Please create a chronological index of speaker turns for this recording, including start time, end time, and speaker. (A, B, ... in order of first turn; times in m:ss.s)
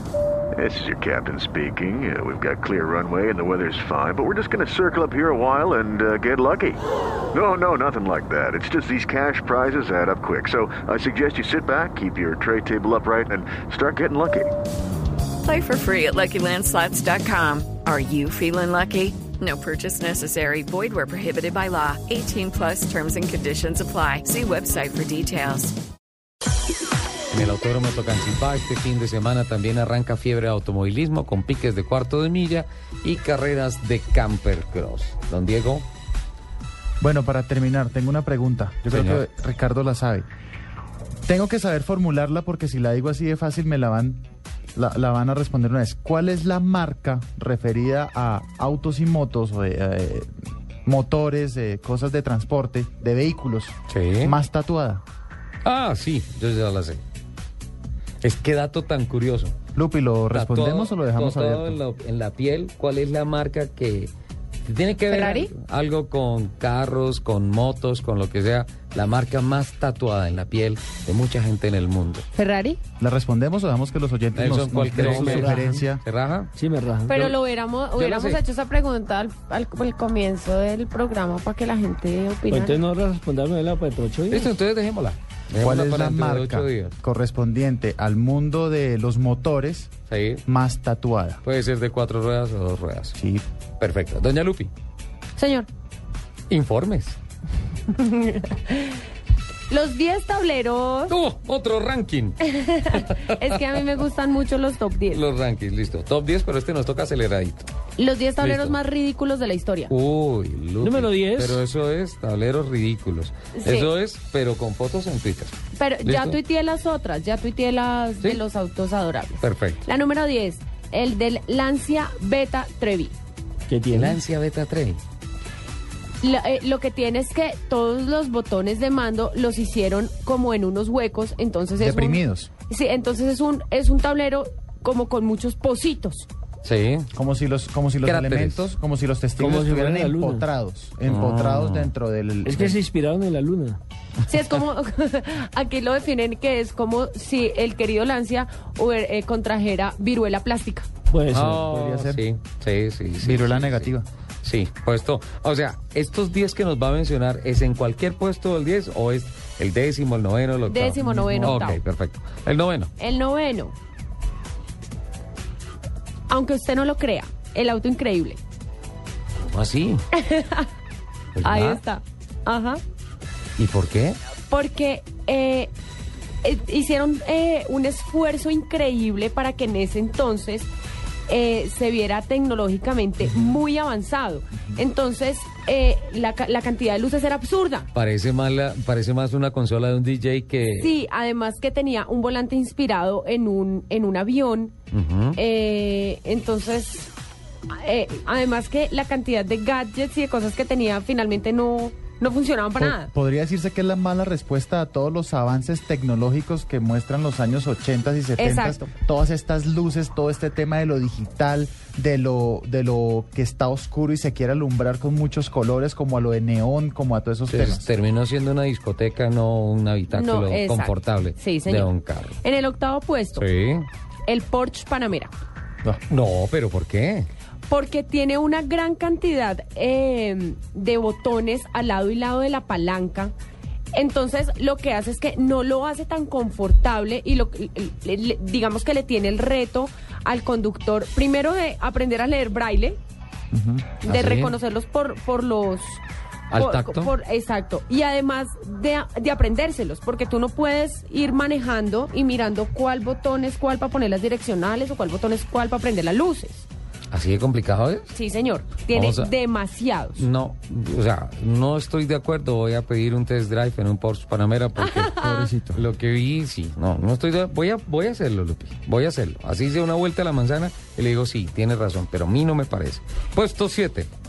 0:00.5-0:14.6 A
0:15.4-0:25.8 B
0:27.3-0:35.9 C
0:37.0-0:40.2 D
0:38.9-0:39.2 C
0:41.3-0:44.2 D
0:44.7-0:50.3 D
0:50.8-0:55.0 D
0:53.9-0:54.4 C
0:55.6-0:57.0 C
0:58.2-0:59.5 C
0:59.7-1:01.8 D
1:00.3-1:04.1 C
1:04.6-1:12.2 C
1:05.1-1:05.5 E
1:12.3-1:12.8 E
1:13.0-1:16.0 D
1:14.3-1:16.5 C
1:15.0-1:15.7 F
1:16.6-1:17.2 F
1:17.1-1:22.8 E
1:17.9-1:18.4 C
1:22.5-1:24.5 F
1:24.3-1:26.9 C
1:25.6-1:29.9 D
1:30.1-1:30.4 C
1:30.4-1:31.4 D
1:31.4-1:33.2 C
1:33.2-1:33.4 D
1:33.8-1:34.7 C
1:35.4-1:35.7 E
1:36.5-1:37.2 C
1:37.9-1:39.0 E
1:39.7-1:41.2 E
1:41.1-1:43.6 C
1:42.4-1:45.2 E
1:45.1-1:47.7 C
1:48.0-1:49.9 E
1:48.4-1:48.8 C
1:49.9-1:56.4 C
1:50.8-1:51.6 F
1:53.5-1:53.9 E
1:55.7-2:03.1 E
1:59.4-1:59.8 C
2:03.7-2:04.2 F
2:03.9-2:05.0 C
2:06.2-2:16.3 E
2:11.8-2:12.5 D
2:16.6-2:17.1 C
2:17.1-2:22.8 D
2:18.0-2:18.7 C
2:19.4-2:20.4 F
2:21.0-2:21.9 C
2:22.4-2:23.8 F
2:24.2-2:30.9 E
2:31.1-2:31.6 F
2:31.3-2:42.9 C
2:31.6-2:32.2 D
2:33.2-2:34.0 D
2:40.7-2:41.8 E
2:41.0-2:41.4 D
2:43.0-2:43.7 E
2:46.3-2:48.4 E
2:49.4-2:50.0 C
2:50.1-2:50.7 E
2:51.3-2:51.8 C
2:51.4-2:52.8 E
2:53.6-2:54.2 C
2:54.5-2:55.7 E
2:56.4-3:00.7 E
3:01.3-3:07.9 E
3:07.9-3:11.0 C
3:10.8-3:14.7 E
3:14.9-3:15.4 C
3:15.3-3:17.1 E
3:17.7-3:23.1 E
3:22.8-3:37.9 D
3:28.4-3:28.9 E
3:37.5-3:42.4 C
3:40.1-3:43.4 E
3:43.4-3:43.9 C
3:44.3-3:45.3 E
3:45.8-3:47.3 C
3:47.7-3:53.3 E
3:53.9-4:03.0 E
4:03.5-4:03.8 D
4:04.0-4:06.0 E
4:04.0-4:04.5 C
4:06.5-4:07.1 C
4:06.5-4:16.6 E
4:17.1-4:18.1 C
4:18.1-4:20.2 E
4:18.9-4:19.3 C
4:20.2-4:34.1 C
4:24.8-4:25.5 E
4:25.1-4:25.8 D